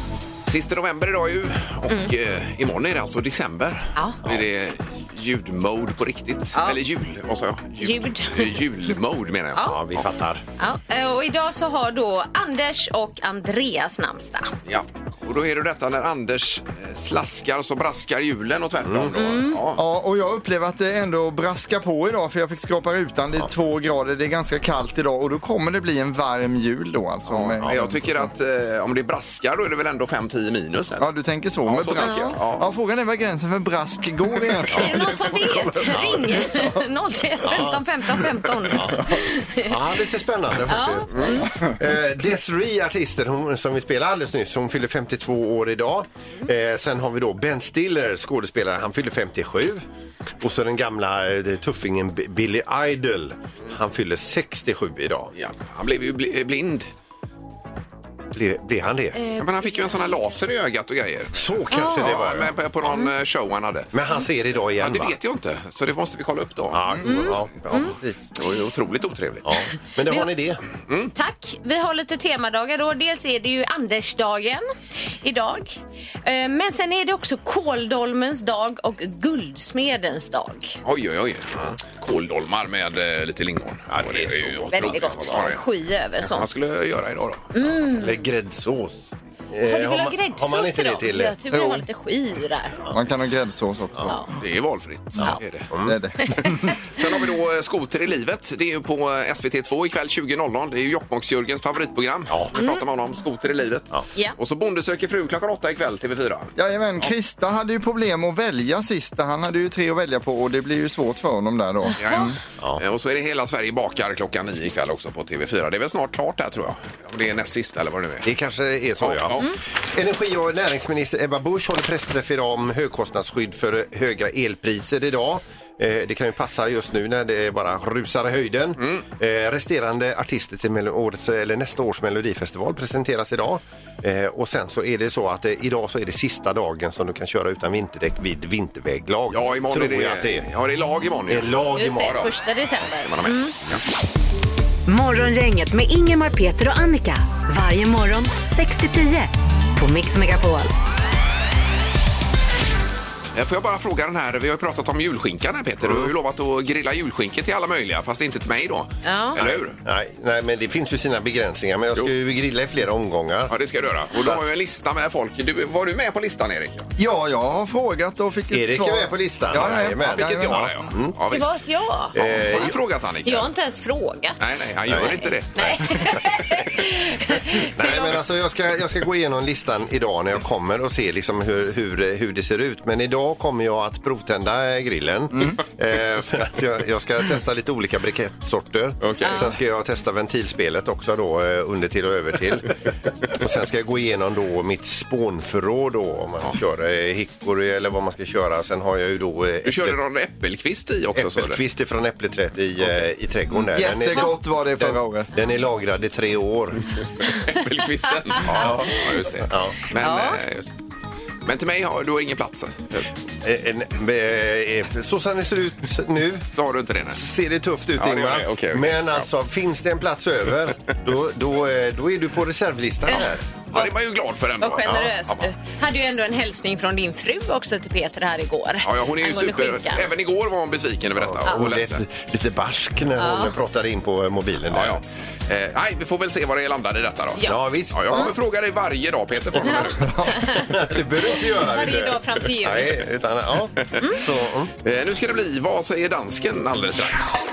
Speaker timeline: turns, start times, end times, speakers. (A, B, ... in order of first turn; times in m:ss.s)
0:00.5-0:09.8 A
0:06.5-0:06.8 B
0:07.8-0:08.6 B
0:09.6-0:09.8 B
0:09.6-0:10.4 C
0:10.6-0:14.5 B
0:14.7-0:19.8 A
0:18.8-0:19.2 C
0:19.1-0:19.6 B
0:19.8-0:28.3 D
0:27.3-0:31.1 A
0:31.0-0:35.5 D
0:31.7-0:32.7 A
0:32.0-0:32.4 B
0:34.7-0:35.0 C
0:34.7-0:39.8 B
0:35.8-0:36.4 C
0:37.4-0:37.8 C
0:38.7-0:49.8 C
0:40.7-0:41.5 B
0:41.1-0:41.4 A
0:50.4-0:55.3 C
0:55.4-0:56.9 A
0:58.3-0:59.2 C
0:59.2-1:00.0 B
0:59.4-1:03.9 A
1:01.3-1:02.6 C
1:01.7-1:02.1 B
1:03.9-1:05.2 C
1:04.8-1:07.0 A
1:06.7-1:08.3 C
1:07.0-1:07.9 B
1:08.4-1:09.6 A
1:09.4-1:10.6 C
1:11.2-1:14.6 B
1:15.2-1:20.8 B
1:20.8-1:25.6 A
1:23.9-1:25.4 C
1:24.7-1:26.5 B
1:26.2-1:27.5 A
1:27.5-1:28.2 B
1:27.9-1:31.4 C
1:29.6-1:32.8 B
1:31.5-1:31.8 D
1:32.9-1:34.4 D
1:34.4-1:35.7 A
1:35.2-1:36.0 C
1:35.8-1:36.8 D
1:36.3-1:36.5 B
1:36.9-1:47.1 A
1:42.6-1:42.8 B
1:46.6-1:52.4 D
1:51.9-1:52.3 B
1:52.0-1:58.3 A
1:58.2-2:20.5 C
1:59.0-1:59.5 A
2:19.3-2:22.3 A
2:21.3-2:22.3 C
2:21.8-2:23.6 B
2:22.9-2:23.8 A
2:24.9-2:30.7 E
2:33.3-2:39.8 A
2:35.8-2:36.1 C
2:39.0-2:39.4 B
2:39.4-2:43.5 C
2:43.5-2:46.9 A
2:44.1-2:44.4 C
2:47.0-2:50.9 D
2:48.5-2:51.2 C
2:49.6-2:51.6 A
2:51.3-2:52.7 B
2:52.1-2:52.8 C
2:52.1-2:53.5 A
2:53.2-2:58.2 B
2:54.4-2:55.7 A
2:54.9-2:56.2 C
2:57.7-3:20.0 C
3:09.0-3:09.5 A
3:09.2-3:09.5 B
3:19.7-3:21.6 A
3:21.1-3:26.9 C
3:23.5-3:25.3 D
3:27.3-3:30.7 A
3:28.4-3:29.8 C
3:30.0-3:30.4 B
3:31.4-3:33.1 A
3:33.4-3:36.4 C
3:36.5-3:37.2 A
3:37.1-3:43.5 C
3:38.0-3:39.2 A
3:43.1-3:43.9 B
3:43.7-3:45.5 A
3:44.6-3:50.1 B
3:48.8-3:52.0 A
3:51.1-3:55.0 C
3:53.2-3:53.6 B
3:54.7-4:00.1 A
3:57.4-3:58.3 C
3:59.6-4:00.7 B
4:00.0-4:00.5 D
4:00.5-4:04.7 C
4:01.5-4:03.0 B
4:04.8-4:07.4 A